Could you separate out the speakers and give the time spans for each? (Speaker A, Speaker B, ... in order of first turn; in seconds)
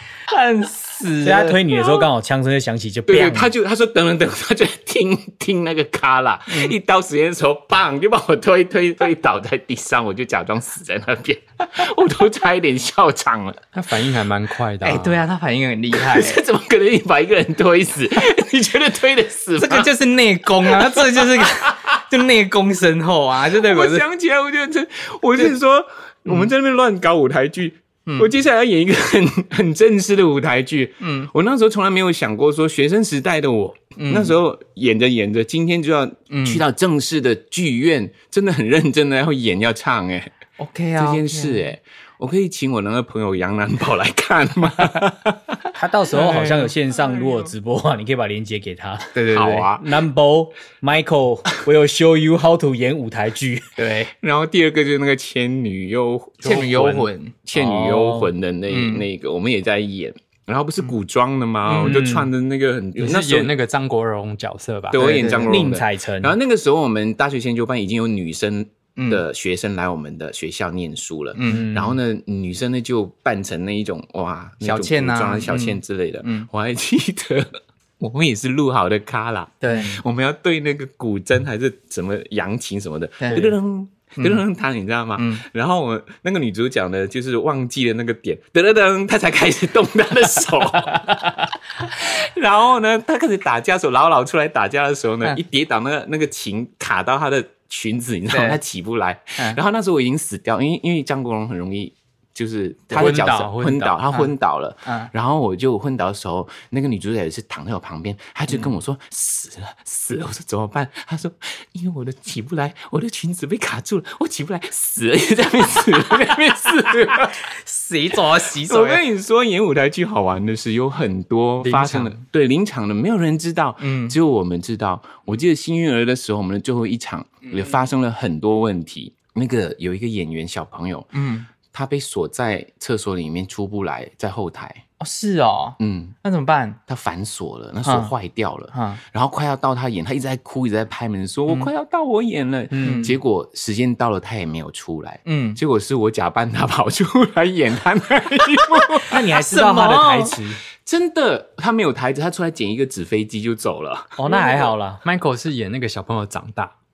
Speaker A: 0.3-1.9, 6.5-6.8, 14.8-16.4, 19.6-24.1, 31.0-31.3, 34.0-34.4, 36.3-36.6, 40.6-41.7, 46.1-47.5, 49.1-49.7, 53.8-54.1, 56.4-57.4, 58.7-59.0, 61.7-62.1, 64.9-65.6, 69.0-69.2, 71.3-71.8, 74.6-76.5, 79.6-80.0, 83.2-83.5, 85.2-85.4, 98.3-98.6, 102.9-103.5, 104.8-105.1, 117.5-119.0, 123.8-124.2, 127.5-127.8, 131.1-131.5, 135.0-136.8, 137.8-138.1, 138.7-139.0, 142.8-143.2, 145.3-145.6, 149.3-150.4
Speaker B: 1.2-3.5, 45.8-49.1, 49.8-53.7, 57.5-58.3, 61.8-62.3, 65.4-66.3, 71.4-72.0, 142.7-143.2, 149.1-150.6, 154.2-155.0
Speaker C: 3.1-13.7, 15.9-19.9, 20.6-22.0, 23.5-40.3, 41.0-45.6, 46.2-46.5, 49.3-50.0, 54.1-63.5, 64.9-117.4, 118.6-131.1, 131.7-134.8, 135.8-136.2, 136.9-149.2, 150.8-154.3
Speaker D: 13.8-15.2, 63.0-65.2, 102.9-104.0, 121.6-122.2, 155.0-156.7